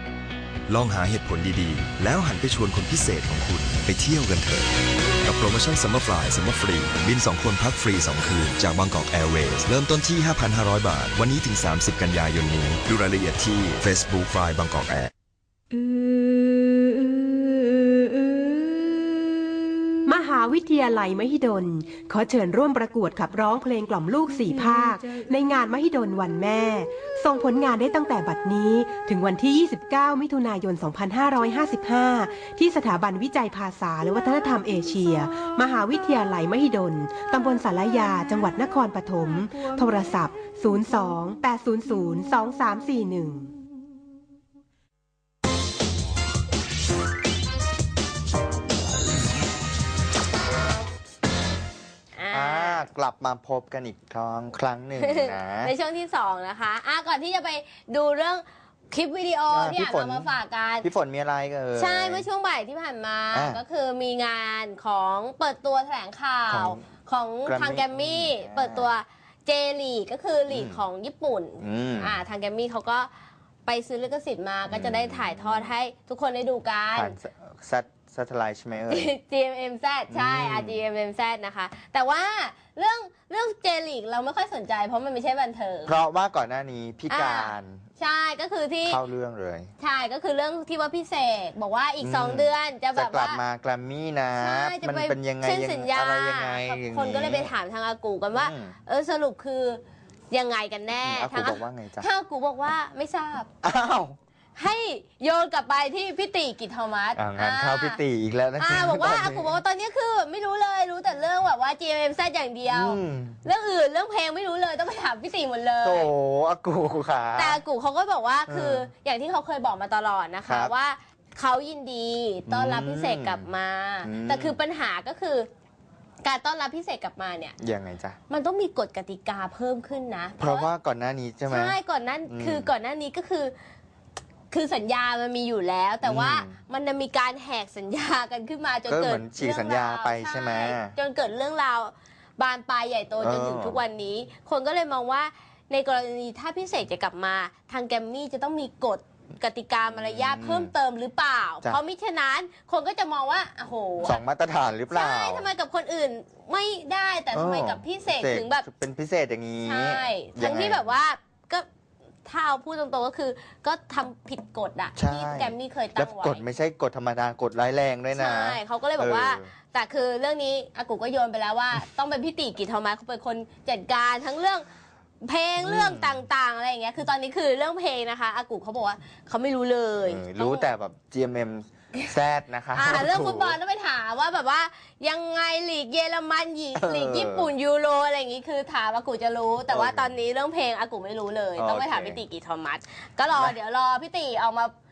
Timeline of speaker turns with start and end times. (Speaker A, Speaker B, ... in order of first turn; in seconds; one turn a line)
Speaker A: 0.7-15.1
Speaker B: 20.0-43.5
Speaker C: 52.1-52.8
Speaker D: 52.3-55.7
Speaker C: 55.0-60.9
Speaker D: 59.5-60.3
Speaker D: 60.8-62.3
Speaker C: 61.7-73.1
Speaker D: 63.3-63.6
Speaker D: 66.5-66.8
Speaker D: 67.5-68.9
Speaker D: 70.5-70.8
Speaker D: 71.6-72.2
Speaker C: 73.7-77.1
Speaker D: 74.7-75.7
Speaker D: 76.9-79.1
Speaker C: 78.9-86.0
Speaker D: 80.1-80.8
Speaker D: 85.8-87.8
Speaker C: 87.1-89.0
Speaker D: 88.8-89.7
Speaker C: 89.8-93.4
Speaker D: 92.0-97.5
Speaker C: 94.4-103.5
Speaker D: 98.3-98.8
Speaker D: 101.0-102.1
Speaker D: 103.6-104.2
Speaker C: 104.5-108.0
Speaker D: 107.2-109.5
Speaker C: 108.6-116.1
Speaker D: 112.7-113.4
Speaker D: 115.8-117.6
Speaker C: 117.3-125.5
Speaker D: 118.5-118.9
Speaker D: 120.5-120.7
Speaker D: 122.5-123.5
Speaker D: 124.0-124.6
Speaker C: 126.2-127.5
Speaker D: 127.6-128.2
Speaker C: 128.3-130.7
Speaker D: 130.4-131.8
Speaker C: 131.5-133.5
Speaker D: 132.3-132.7
Speaker C: 134.5-154.2
Speaker D: 136.0-136.6
Speaker D: 138.9-140.9
Speaker D: 143.2-143.8
Speaker D: 149.9-150.7
Speaker D: 154.0-155.5
Speaker C: 154.9-158.7
Speaker D: 157.3-160.9
Speaker C: 159.6-161.7
Speaker C: 162.2-166.4
Speaker D: 164.9-169.5
Speaker C: 168.1-174.7
Speaker C: 175.2-180.7
Speaker D: 175.6-176.2
Speaker D: 180.0-183.6
Speaker C: 182.7-194.7
Speaker D: 186.8-187.5
Speaker D: 189.7-190.2
Speaker D: 191.6-192.2